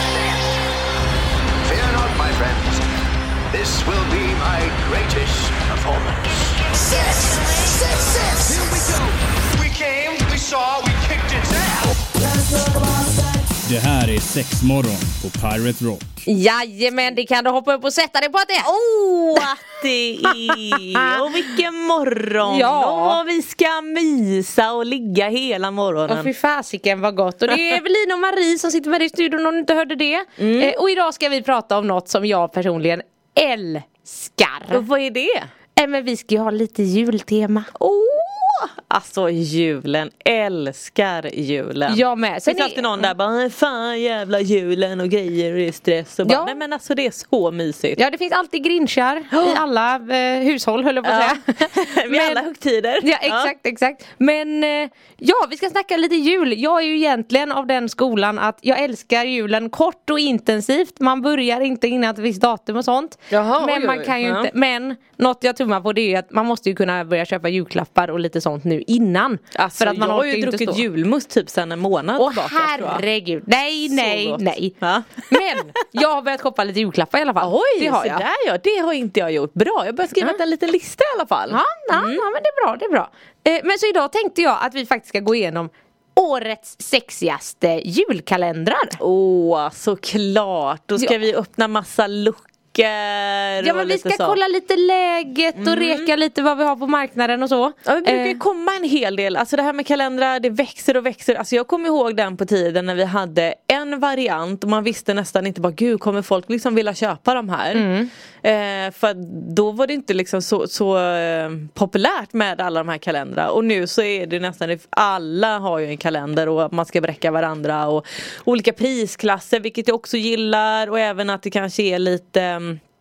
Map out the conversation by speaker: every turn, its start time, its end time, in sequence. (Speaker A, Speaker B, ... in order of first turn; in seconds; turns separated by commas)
Speaker A: 1.6-2.8, Speaker A: 3.5-6.4, Speaker A: 6.9-9.0, Speaker A: 9.6-11.9, Speaker B: 13.7-16.1, Speaker C: 16.3-18.7, Speaker D: 18.6-26.3, Speaker C: 19.3-19.7, Speaker C: 20.2-21.1, Speaker C: 22.4-23.2, Speaker C: 26.1-34.9, Speaker D: 30.4-30.8, Speaker D: 34.7-35.5, Speaker C: 35.8-37.7, Speaker D: 37.8-48.0, Speaker C: 41.9-43.1, Speaker C: 46.2-46.6, Speaker C: 48.0-52.4, Speaker D: 49.3-49.6, Speaker D: 51.0-53.5, Speaker C: 53.0-70.8, Speaker D: 63.3-64.5, Speaker D: 69.5-73.0, Speaker C: 72.2-74.8, Speaker D: 73.9-76.0, Speaker C: 75.3-78.2, Speaker D: 77.4-82.2, Speaker C: 81.5-89.0, Speaker D: 89.0-94.4, Speaker C: 93.6-98.4, Speaker D: 95.6-96.1, Speaker D: 97.9-107.9, Speaker C: 107.7-108.1, Speaker D: 108.4-122.8